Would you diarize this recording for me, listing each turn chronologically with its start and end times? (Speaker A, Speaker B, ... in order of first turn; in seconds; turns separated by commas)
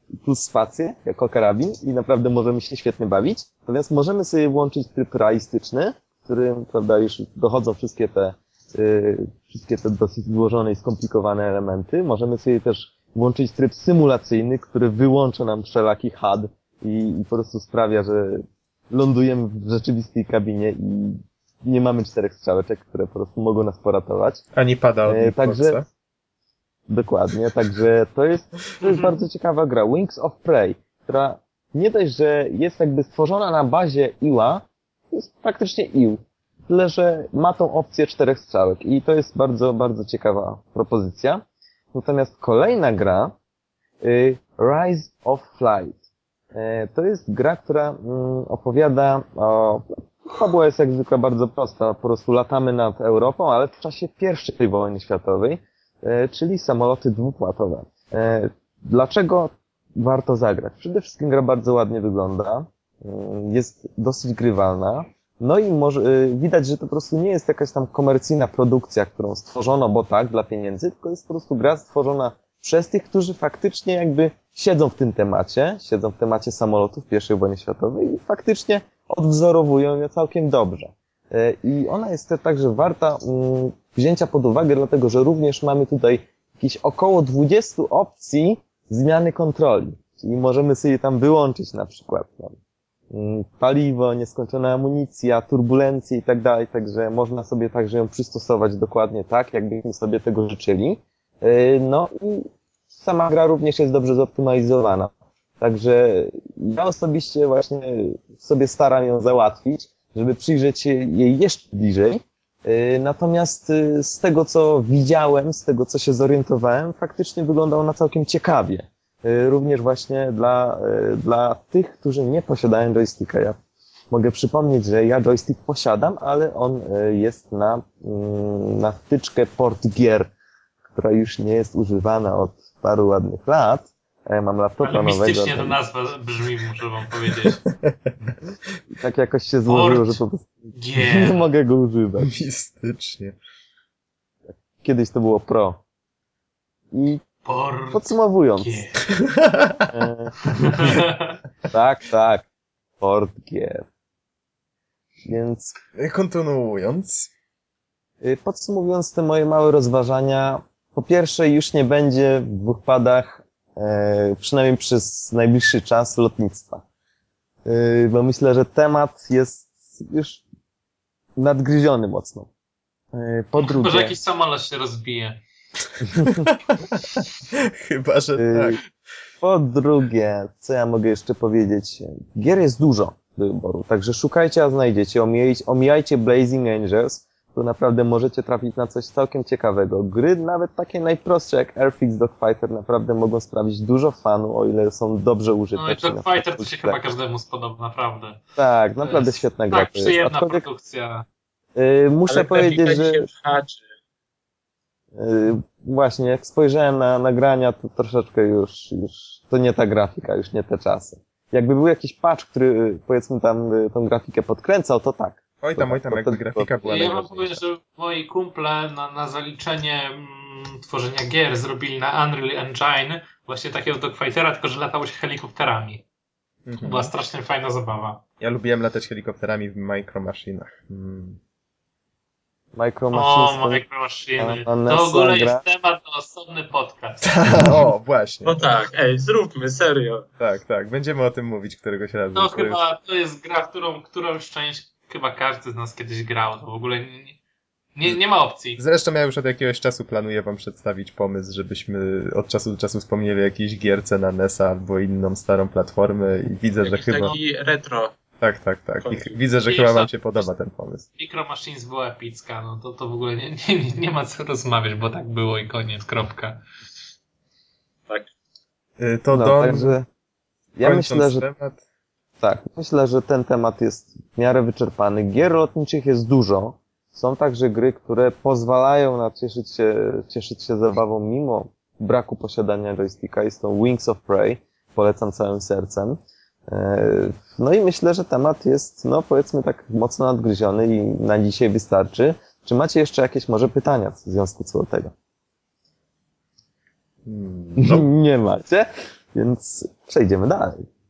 Speaker A: 0.2-24.4, Speaker B: 24.6-25.9, Speaker A: 25.1-25.8, Speaker A: 26.9-41.4, Speaker C: 28.8-29.1, Speaker A: 41.9-43.3, Speaker A: 44.0-46.0, Speaker A: 46.5-92.6, Speaker A: 93.1-123.6, Speaker A: 124.1-130.3, Speaker A: 130.9-135.8, Speaker C: 134.8-137.6, Speaker B: 137.7-138.3, Speaker A: 138.9-142.3, Speaker C: 139.7-140.2, Speaker C: 140.7-141.5, Speaker B: 142.2-143.4, Speaker A: 144.5-145.8, Speaker A: 146.9-147.2, Speaker C: 147.4-149.0, Speaker A: 147.9-148.8, Speaker B: 149.2-149.9, Speaker A: 149.9-151.1, Speaker C: 150.5-151.4, Speaker A: 151.7-152.5, Speaker A: 153.0-153.9, Speaker A: 155.2-155.8, Speaker B: 156.0-157.3, Speaker A: 158.2-166.8, Speaker A: 167.7-170.4, Speaker A: 171.4-172.5, Speaker A: 173.1-174.2, Speaker C: 173.6-175.4, Speaker A: 176.0-176.4, Speaker B: 176.2-178.8, Speaker A: 178.4-178.8, Speaker A: 179.4-197.0, Speaker C: 195.8-198.4, Speaker A: 198.6-200.7, Speaker C: 199.0-201.3, Speaker A: 201.8-203.3, Speaker D: 202.3-203.8, Speaker A: 205.2-216.7, Speaker B: 215.6-217.6, Speaker C: 216.8-226.0, Speaker B: 226.7-227.1, Speaker C: 226.8-228.2, Speaker B: 228.4-231.4, Speaker A: 232.7-233.8, Speaker C: 233.1-237.8, Speaker A: 234.4-235.6, Speaker B: 237.2-238.7, Speaker D: 238.4-240.2, Speaker B: 240.4-242.8, Speaker C: 242.3-247.4, Speaker C: 247.9-248.8, Speaker B: 248.8-257.4, Speaker D: 256.8-258.1, Speaker B: 258.4-261.1, Speaker D: 259.0-259.3, Speaker C: 259.7-260.5, Speaker C: 261.2-266.6, Speaker B: 269.0-270.0, Speaker A: 269.3-270.1, Speaker A: 270.8-271.5, Speaker B: 270.8-271.8, Speaker A: 272.4-295.1, Speaker B: 297.3-298.1, Speaker A: 297.8-300.9